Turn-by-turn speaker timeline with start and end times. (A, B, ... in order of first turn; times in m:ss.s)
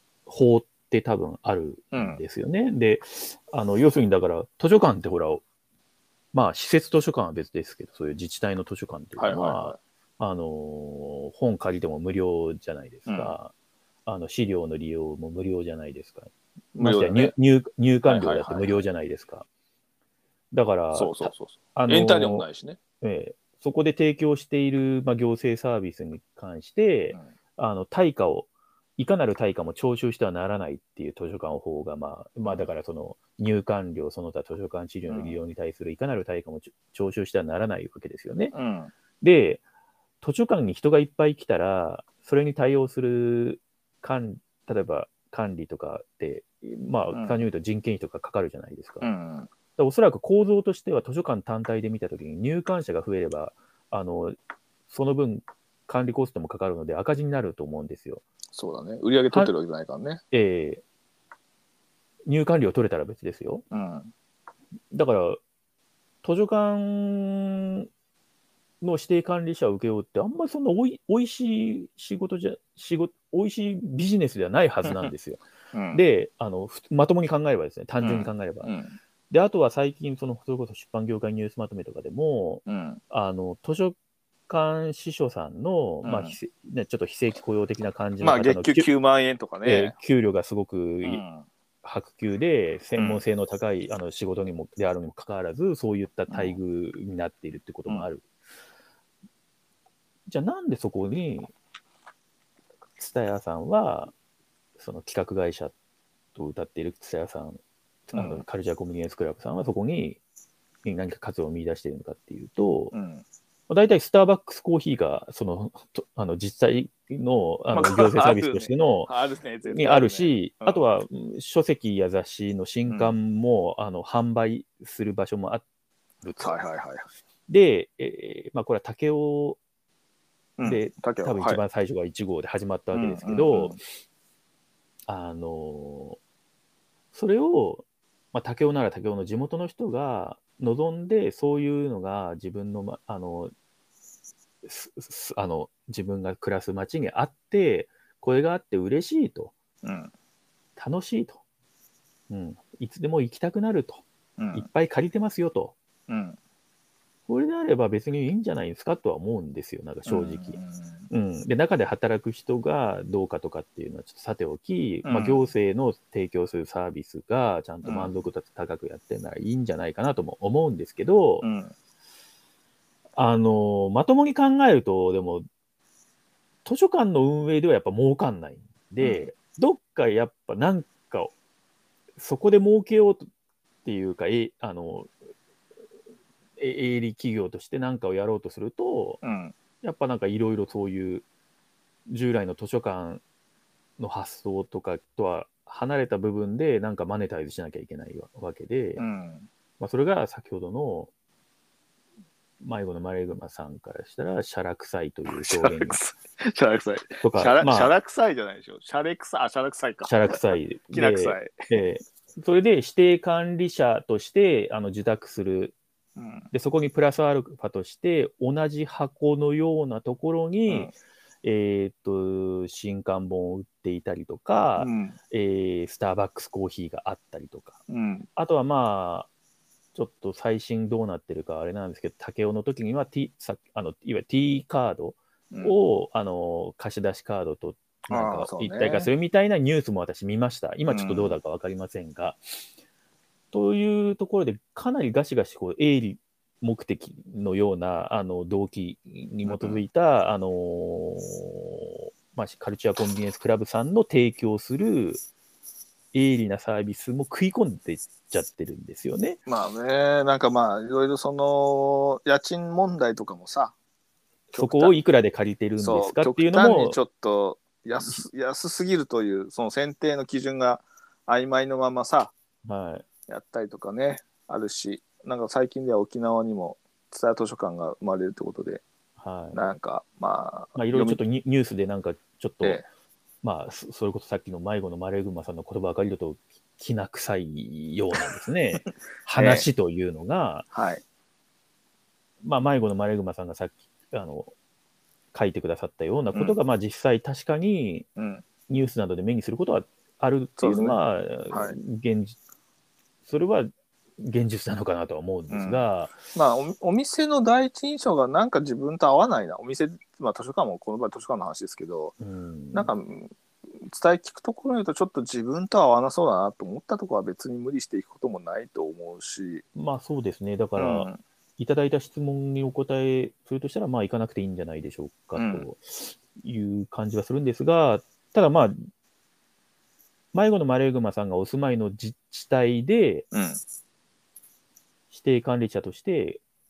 0:00.3-0:05.4 A
0:01.9-0:02.2 B
0:06.3-0:13.5 A
0:09.2-0:09.8 B
0:13.1-0:13.4 B
0:14.1-0:19.4 A
0:16.7-0:17.3 B
0:18.0-0:18.8 B
0:20.5-0:22.5 A
0:20.9-0:22.8 B
0:23.0-0:38.5 A
0:35.1-0:35.4 B
0:38.5-0:38.9 B
0:39.2-0:39.6 A
0:40.2-0:49.1 A
0:47.1-0:47.4 B
0:49.0-0:49.5 B
0:49.8-0:54.4 A
0:54.9-0:58.2 A
0:58.5-1:00.2 B
1:00.3-1:00.8 A
1:02.2-1:03.6 A
1:03.7-1:04.1 B
1:04.9-1:05.4 A
1:06.2-1:07.9 A
1:08.8-1:15.4 A
1:15.7-1:16.0 B
1:15.9-1:18.7 A
1:18.0-1:19.0 B
1:19.3-1:24.0 A
1:22.6-1:23.0 B
1:24.5-1:28.9 A
1:26.0-1:26.4 B
1:28.2-1:29.9 B
1:29.6-1:31.2 A
1:31.0-1:31.5 B
1:31.8-1:38.2 A
1:33.0-1:33.2 B
1:36.3-1:36.6 B
1:40.3-1:41.5 A
1:43.0-1:44.1 A
1:44.8-1:45.7 A
1:46.4-1:47.6 A
1:48.1-1:50.2 A
1:48.1-1:48.4 B
1:50.8-1:52.9 A
1:52.9-1:53.2 B
1:53.7-1:59.1 A
1:57.7-2:00.8 B
1:59.7-2:05.6 A
2:02.9-2:03.2 B
2:06.2-2:06.6 A
2:06.4-2:07.0 B
2:07.5-2:09.6 A
2:10.6-2:11.6 B
2:10.6-2:13.8 A
2:12.9-2:13.8 B
2:15.1-2:16.2 A
2:17.1-2:23.5 A
2:24.6-2:29.5 A
2:29.8-2:30.1 B
2:30.8-2:31.4 A
2:32.3-2:35.7 A
2:34.4-2:34.7 B
2:36.1-2:36.4 B
2:37.3-2:40.6 A
2:40.1-2:41.1 B
2:41.1-2:51.4 A
2:45.0-2:45.5 B
2:47.8-2:48.1 B
2:51.4-2:51.7 B
2:53.2-2:55.4 A
2:56.6-3:01.3 A
2:59.0-2:59.3 B
3:02.2-3:03.2 A
3:03.8-3:05.1 A
3:06.6-3:09.2 A
3:09.2-3:09.5 B
3:09.8-3:11.2 A
3:12.1-3:13.2 A
3:14.0-3:19.0 A
3:19.0-3:19.5 B
3:19.8-3:21.1 A
3:22.6-3:26.0 A
3:25.3-3:31.6 B
3:27.2-3:27.9 A
3:30.1-3:35.8 A
3:36.2-3:36.5 B
3:36.5-3:40.9 A
3:40.7-3:40.9 B
3:41.4-3:47.8 A
3:44.8-3:45.2 B
3:47.9-3:48.3 B
3:48.4-3:49.3 A
3:49.9-4:02.4 A
3:55.5-3:55.8 B
3:58.1-3:59.1 B
4:00.9-4:01.4 B
4:03.5-4:15.2 A
4:09.4-4:09.8 B
4:16.1-4:19.4 A
4:19.4-4:23.7 B
4:24.5-4:24.9 B
4:24.6-4:27.0 A
4:25.8-4:32.3 B
4:32.6-4:33.0 A
4:33.3-4:38.8 B
4:39.2-4:39.6 A
4:39.5-4:41.2 B
4:40.8-4:42.8 A
4:43.4-4:50.7 A
4:49.4-4:49.7 B
4:50.7-4:51.0 B
4:52.4-4:54.5 A
4:55.3-4:58.1 A
4:58.2-4:58.4 B
4:58.7-5:02.4 A
5:00.6-5:01.8 B
5:03.2-5:06.2 A
5:05.5-5:12.2 B
5:12.2-5:12.9 A
5:12.7-5:13.3 B
5:13.8-5:19.6 B
5:19.7-5:28.8 A
5:20.8-5:21.2 B
5:25.4-5:25.6 B
5:30.3-5:33.2 A
5:33.3-5:33.6 B
5:35.1-5:36.4 A